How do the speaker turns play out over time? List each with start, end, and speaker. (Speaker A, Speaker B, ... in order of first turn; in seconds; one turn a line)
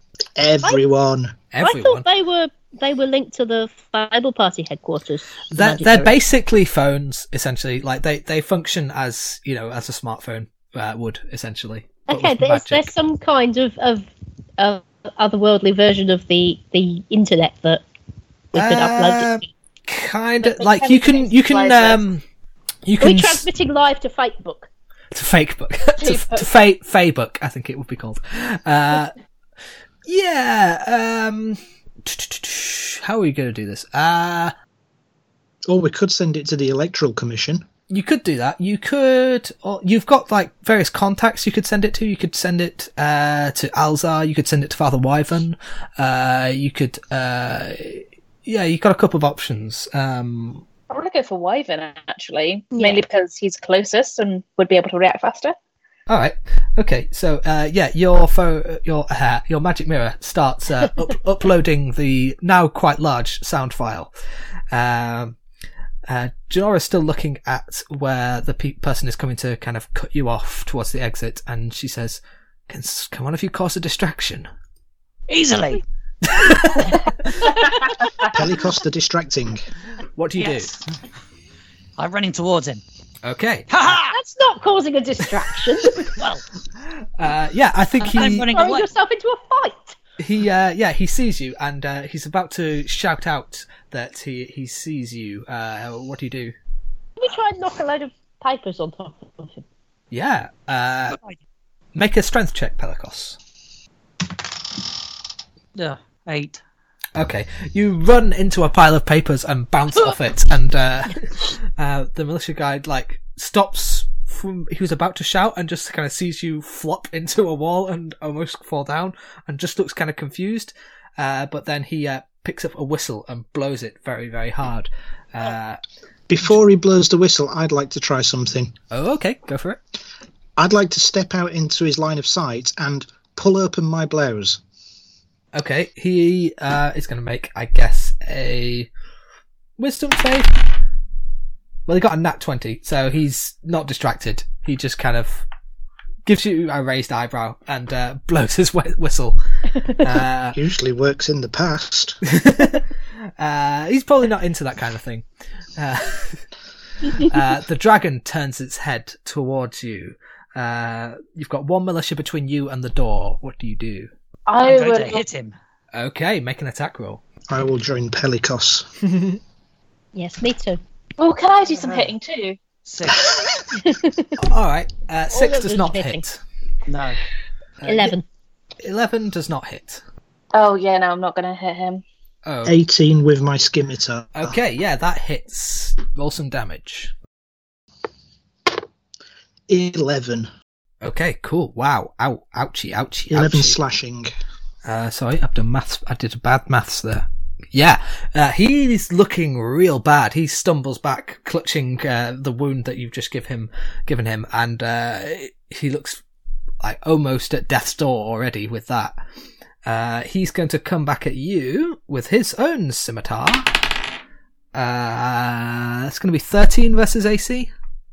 Speaker A: 0.3-1.3
Speaker B: 1.5-2.0
Speaker C: 1.6-6.2
Speaker B: 5.5-12.8
Speaker C: 12.1-17.8
Speaker C: 18.5-19.5
Speaker B: 18.5-22.2
Speaker D: 20.4-22.0
Speaker B: 22.9-23.5
Speaker C: 23.0-24.7
Speaker B: 25.1-29.1
Speaker D: 26.0-26.6
Speaker B: 30.1-34.5
Speaker A: 35.7-37.6
Speaker B: 37.9-50.6
Speaker D: 50.9-55.5
Speaker C: 52.7-53.0
Speaker B: 56.1-64.1
Speaker B: 64.7-65.4
Speaker B: 66.1-74.5
Speaker E: 75.3-75.8
Speaker B: 76.3-77.5
Speaker A: 78.3-79.6
Speaker B: 80.2-80.7
Speaker E: 80.4-80.8
Speaker E: 82.0-82.8
Speaker B: 83.2-83.7
Speaker E: 83.7-84.2
Speaker C: 84.1-86.2
Speaker E: 86.0-86.4
Speaker B: 87.2-88.5
Speaker E: 88.0-88.9
Speaker C: 88.4-90.0
Speaker B: 90.2-96.5
Speaker C: 97.2-99.6
Speaker B: 100.1-101.2
Speaker E: 101.1-101.4
Speaker B: 101.9-103.4
Speaker E: 105.7-106.6
Speaker B: 107.2-125.8
Speaker A: 126.3-128.7
Speaker B: 128.9-129.8
Speaker A: 130.6-134.6
Speaker B: 135.5-138.9
Speaker B: 139.8-140.6
Speaker B: 141.9-145.4
Speaker B: 146.2-149.4
Speaker B: 149.9-150.6
Speaker A: 150.5-152.2
Speaker B: 152.2-152.8
Speaker B: 153.4-155.2
Speaker B: 155.8-156.4
Speaker B: 157.0-164.1
Speaker D: 164.5-165.2
Speaker E: 164.6-165.5
Speaker B: 165.9-167.2
Speaker A: 167.5-168.8
Speaker B: 169.0-169.4
Speaker C: 170.1-170.8
Speaker D: 171.2-172.6
Speaker E: 171.8-172.1
Speaker E: 172.8-173.4
Speaker C: 173.8-174.3
Speaker B: 174.4-176.4
Speaker C: 175.3-176.2
Speaker E: 176.9-177.2
Speaker B: 177.8-178.2
Speaker C: 177.8-178.2
Speaker B: 178.8-180.0
Speaker D: 180.5-182.0
Speaker B: 182.4-182.8
Speaker A: 182.6-184.6
Speaker B: 184.3-187.1
Speaker A: 189.7-190.5
Speaker B: 191.0-193.8
Speaker A: 193.3-194.3
Speaker B: 194.8-206.2
Speaker B: 206.8-209.2
Speaker B: 209.8-213.8
Speaker B: 214.7-217.7